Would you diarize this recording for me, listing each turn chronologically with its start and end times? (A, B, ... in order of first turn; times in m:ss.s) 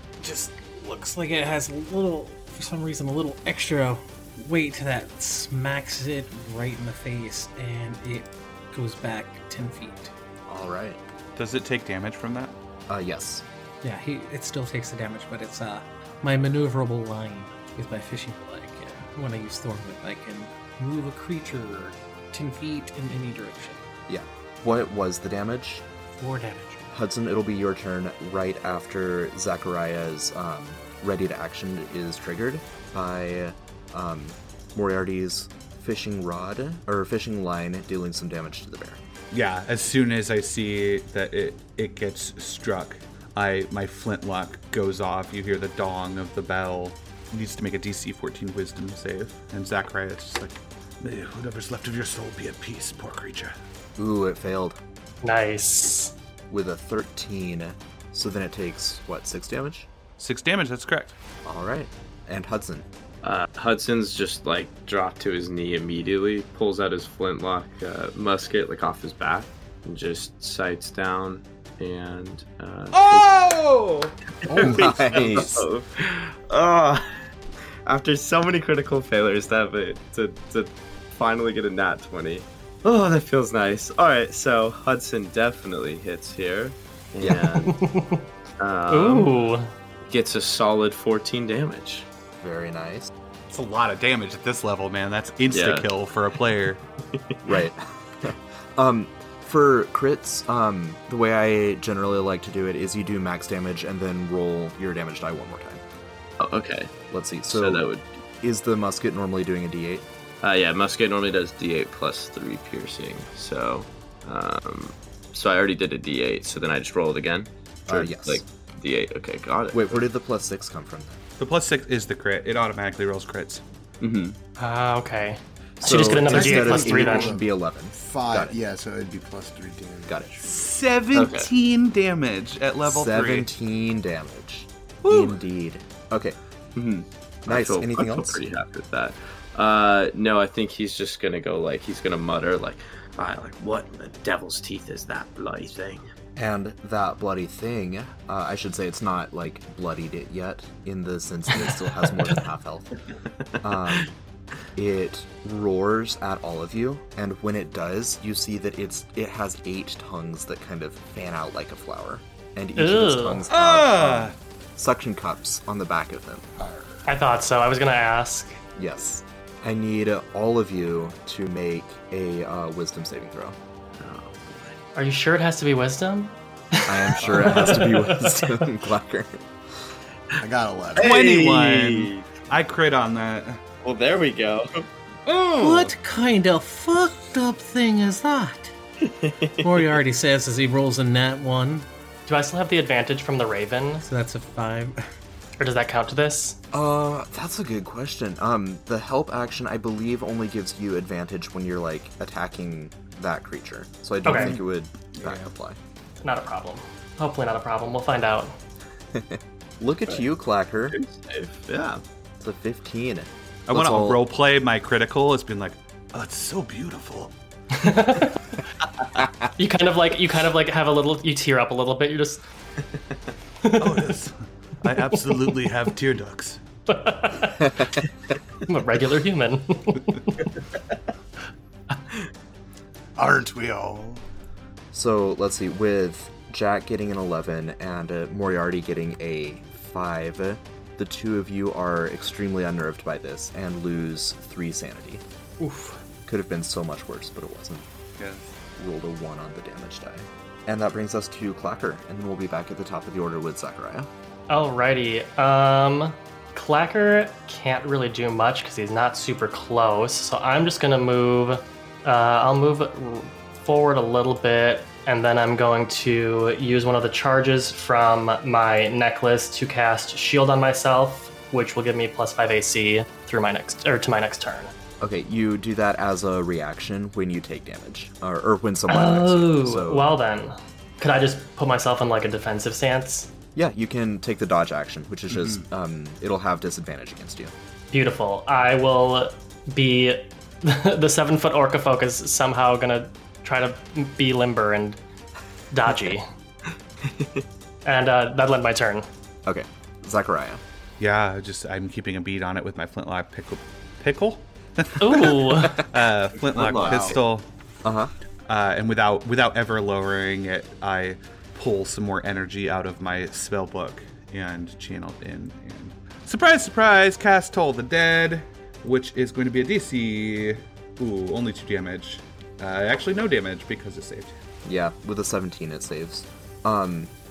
0:00.2-0:10.1 A
0:10.5-0:11.0 B
0:11.4-0:12.5 C
0:12.9-0:13.4 B
0:13.8-0:23.8 A
0:24.1-0:25.8 B
0:26.2-0:26.9 A
0:26.9-0:39.0 B
0:39.3-0:53.5 C
0:54.0-0:54.8 B
0:55.2-0:56.1 D
0:56.5-0:59.9 B
1:00.2-1:01.1 C
1:01.4-1:02.9 B
1:03.2-1:13.4 E
1:12.9-1:14.8 C
1:14.4-1:17.0 E
1:14.5-1:15.5 B
1:14.9-1:15.4 F
1:17.8-1:27.8 E
1:27.2-1:27.6 B
1:27.6-1:28.2 D
1:28.6-1:29.4 E
1:28.9-1:29.7 D
1:30.0-1:32.0 E
1:32.4-1:33.1 B
1:33.5-1:36.8 C
1:35.5-1:35.9 E
1:37.4-1:45.8 B
1:46.4-1:46.9 E
1:47.1-1:47.9 B
1:47.4-1:48.0 E
1:48.4-1:50.1 B
1:50.4-2:00.0 E
1:57.9-1:58.4 B
1:59.7-2:01.2 B
2:01.4-2:03.6 C
2:04.0-2:04.4 E
2:04.6-2:07.3 D
2:05.8-2:08.5 B
2:06.2-2:10.5 F
2:10.1-2:10.4 B
2:10.4-2:13.5 C
2:11.1-2:11.5 E
2:12.8-2:16.4 B
2:15.0-2:15.4 C
2:16.8-2:26.0 E
2:17.4-2:18.4 B
2:26.4-2:32.9 B
2:33.6-2:34.1 B
2:34.7-2:46.4 B
2:42.8-2:43.4 D
2:43.5-2:44.3 C
2:46.6-2:47.0 F
2:47.0-2:48.6 D
2:48.8-2:53.6 B
2:54.0-2:54.8 E
2:54.9-2:58.5 D
2:56.9-2:59.4 B
3:00.4-3:01.1 F
3:01.0-3:03.6 C
3:01.0-3:02.3 E
3:03.8-3:04.9 E
3:05.5-3:08.7 A
3:09.0-3:09.9 E
3:09.6-3:11.9 A
3:12.3-3:14.0 D
3:14.0-3:15.0 A
3:15.6-3:16.6 D
3:16.7-3:25.8 B
3:24.2-3:24.5 D
3:25.2-3:25.4 C
3:26.2-3:28.6 D
3:29.1-3:31.0 B
3:30.9-3:32.0 E
3:32.4-3:34.2 B
3:33.7-3:37.3 C
3:37.7-3:38.4 D
3:39.6-3:42.4 D
3:43.6-3:44.1 D
3:43.8-3:46.6 C
3:46.9-3:47.9 D
3:48.6-3:50.5 D
3:53.2-3:54.2 F
3:54.9-4:05.2 B
4:05.6-4:06.0 D
4:06.2-4:07.8 B
4:08.2-4:08.5 C
4:08.8-4:14.1 B
4:14.5-4:34.7 D
4:35.0-4:40.1 B
4:38.9-4:43.3 D
4:43.5-4:47.5 B
4:47.9-4:55.0 D
4:55.7-4:56.2 D
4:57.8-4:59.1 D
4:59.4-5:00.6 B
5:01.0-5:07.4 C
5:05.0-5:05.8 D
5:06.5-5:07.2 E
5:06.7-5:07.2 F
5:07.8-5:08.1 B
5:08.5-5:24.3 C
5:24.6-5:27.1 B